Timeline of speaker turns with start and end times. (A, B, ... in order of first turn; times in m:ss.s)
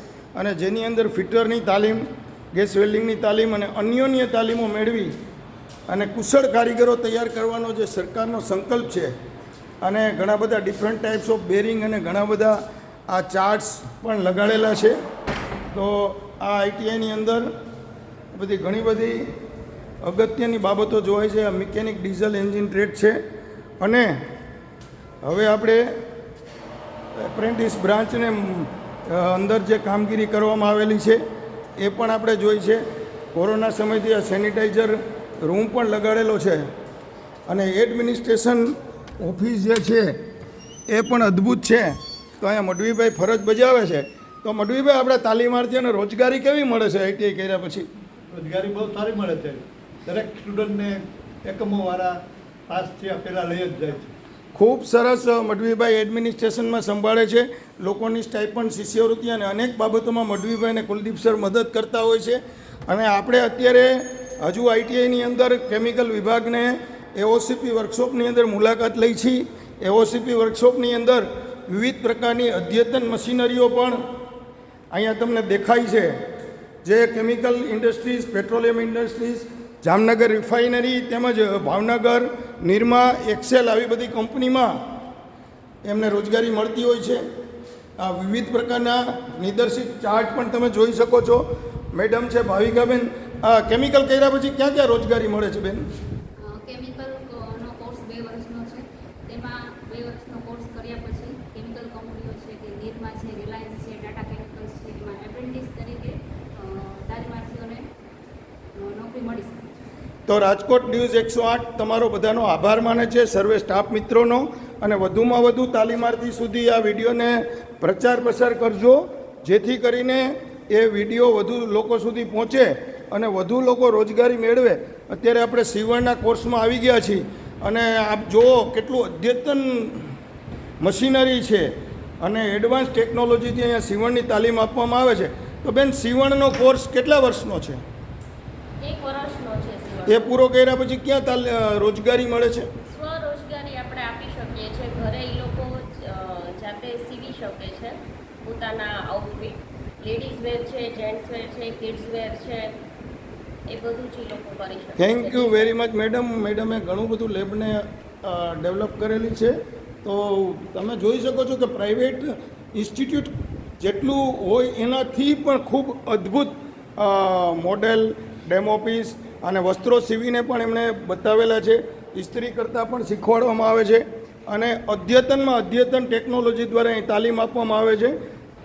0:00.4-0:05.1 A
0:05.9-0:09.1 A
0:09.8-0:12.6 A
0:13.1-0:15.0 A
0:15.7-0:17.5 A
0:18.3-0:19.2 A
0:20.0-0:23.2 A
0:23.8-0:24.2 A
0:25.2-0:25.8 A
0:27.2-0:31.2 A
0:31.8-0:32.8 A
0:33.3-0:36.7 A
0:37.5-0:40.2 A
0:40.9-0:47.9 A
0:48.3-0:54.1 B
0:54.6-1:14.0 A
1:14.9-1:16.1 A
1:16.8-1:24.7 A
1:25.8-1:27.2 A
1:28.0-1:35.8 A
1:36.4-1:47.9 C
1:48.8-1:49.8 C
1:50.3-2:10.1 A
2:10.8-2:11.7 A
2:12.2-2:17.8 A
2:18.8-2:20.2 D
2:20.1-2:22.7 A
2:22.9-2:32.7 D
2:33.7-2:35.8 D
2:35.0-2:58.2 A